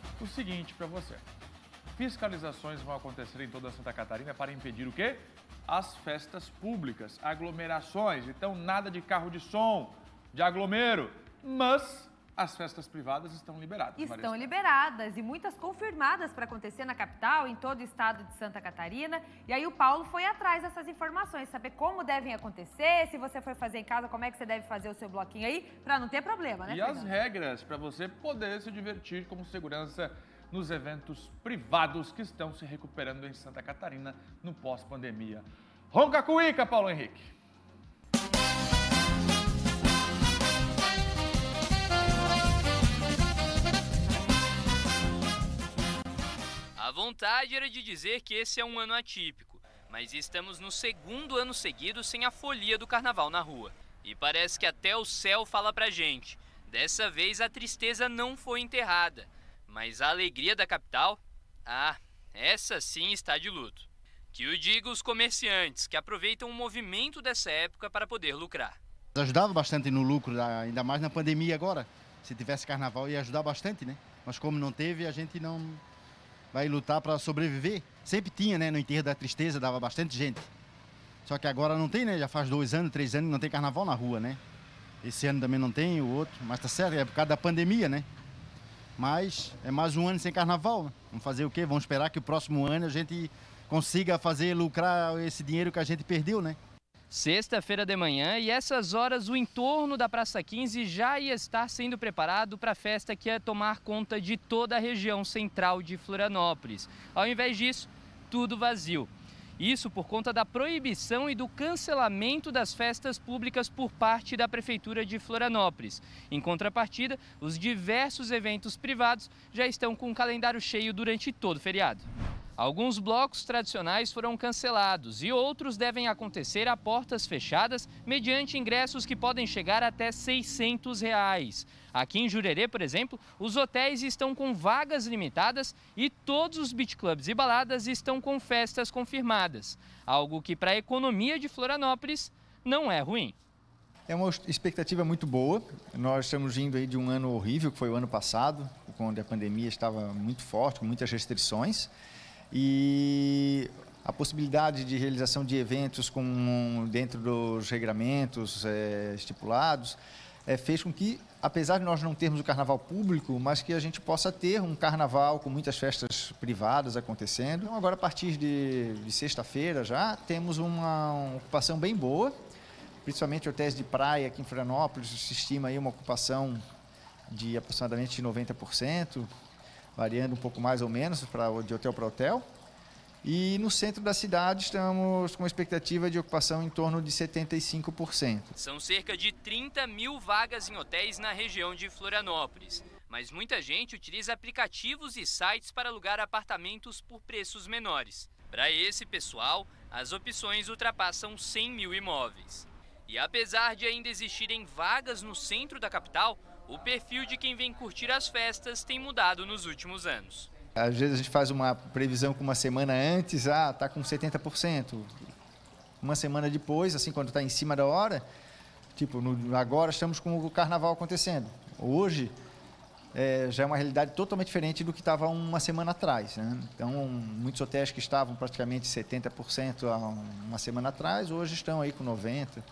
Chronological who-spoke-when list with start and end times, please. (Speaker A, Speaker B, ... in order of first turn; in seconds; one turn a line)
Speaker A: 0.2-1.2
Speaker A: 1.9-14.5
Speaker B: 14.0-27.1
Speaker A: 26.6-37.3
Speaker C: 46.8-68.8
Speaker D: 69.2-75.8
Speaker D: 76.5-80.5
Speaker D: 81.2-84.4
Speaker D: 85.0-88.1
Speaker D: 89.0-96.6
Speaker C: 97.1-143.3
Speaker E: 144.1-151.9
Speaker E: 152.5-172.4
Speaker E: 173.0-176.6
Speaker E: 177.3-179.3
Speaker E: 180.0-182.5
Speaker E: 183.2-188.5
Speaker C: 188.5-210.5
Speaker E: 210.8-215.1
Speaker E: 216.0-218.2
Speaker E: 219.0-222.3
Speaker E: 223.1-232.6